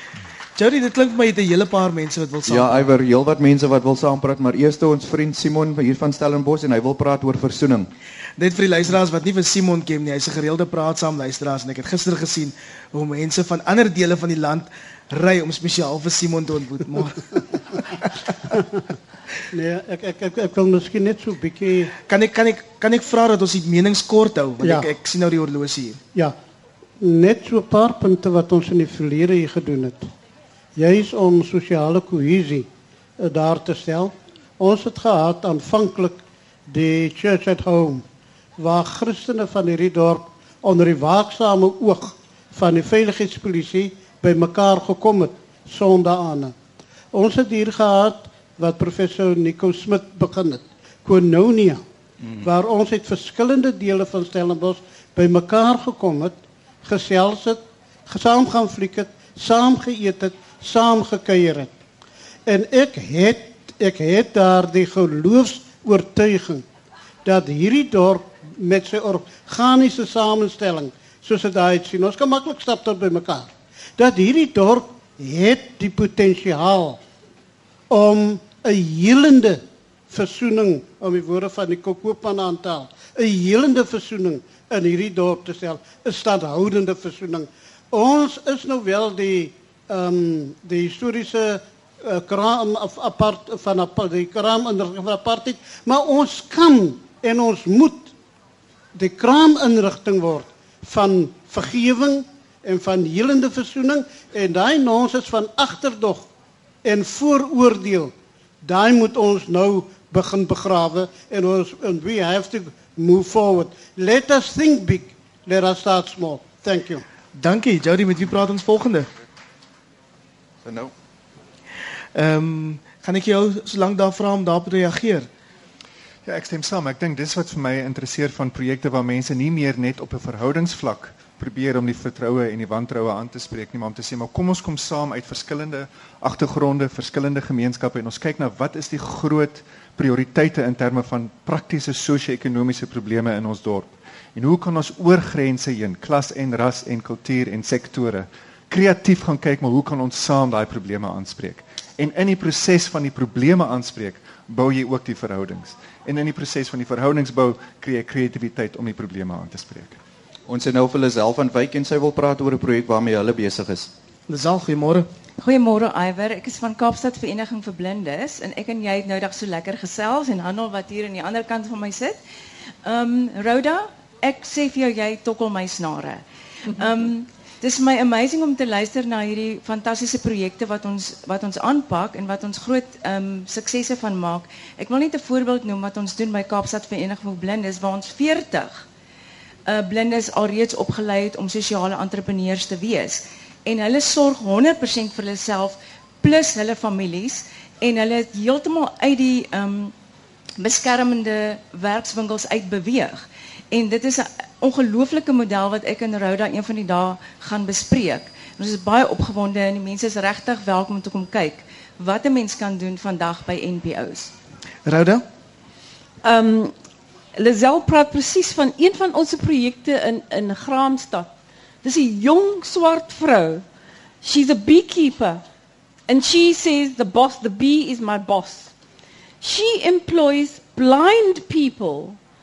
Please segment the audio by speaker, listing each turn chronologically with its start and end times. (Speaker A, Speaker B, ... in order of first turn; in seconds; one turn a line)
Speaker A: 0.6-2.9
Speaker B: 2.5-7.9
Speaker A: 8.4-17.3
Speaker C: 19.5-21.9
Speaker A: 22.0-26.0
Speaker C: 24.6-24.9
Speaker C: 27.0-30.1
Speaker C: 30.8-32.7
Speaker C: 33.2-38.0
Speaker C: 38.6-46.5
Speaker C: 47.1-51.8
Speaker C: 52.4-61.7
Speaker C: 62.5-66.7
Speaker C: 67.2-77.0
Speaker C: 77.9-98.1
Speaker C: 99.0-106.3
Speaker C: 106.8-117.0
Speaker A: 117.4-119.1
Speaker B: 120.6-120.9
Speaker A: 122.2-125.3
Speaker D: 126.3-160.0
Speaker B: 160.5-163.9
Speaker A: 164.3-165.1
Speaker E: 165.4-172.2
Speaker E: 172.8-188.8
Speaker E: 189.7-199.9
Speaker E: 200.6-214.3
Speaker A: 214.9-215.2
Speaker F: 216.2-216.7
Speaker F: 217.4-221.3
Speaker F: 221.8-223.6
Speaker F: 224.2-225.4
Speaker F: 226.1-228.7
Speaker F: 229.4-232.2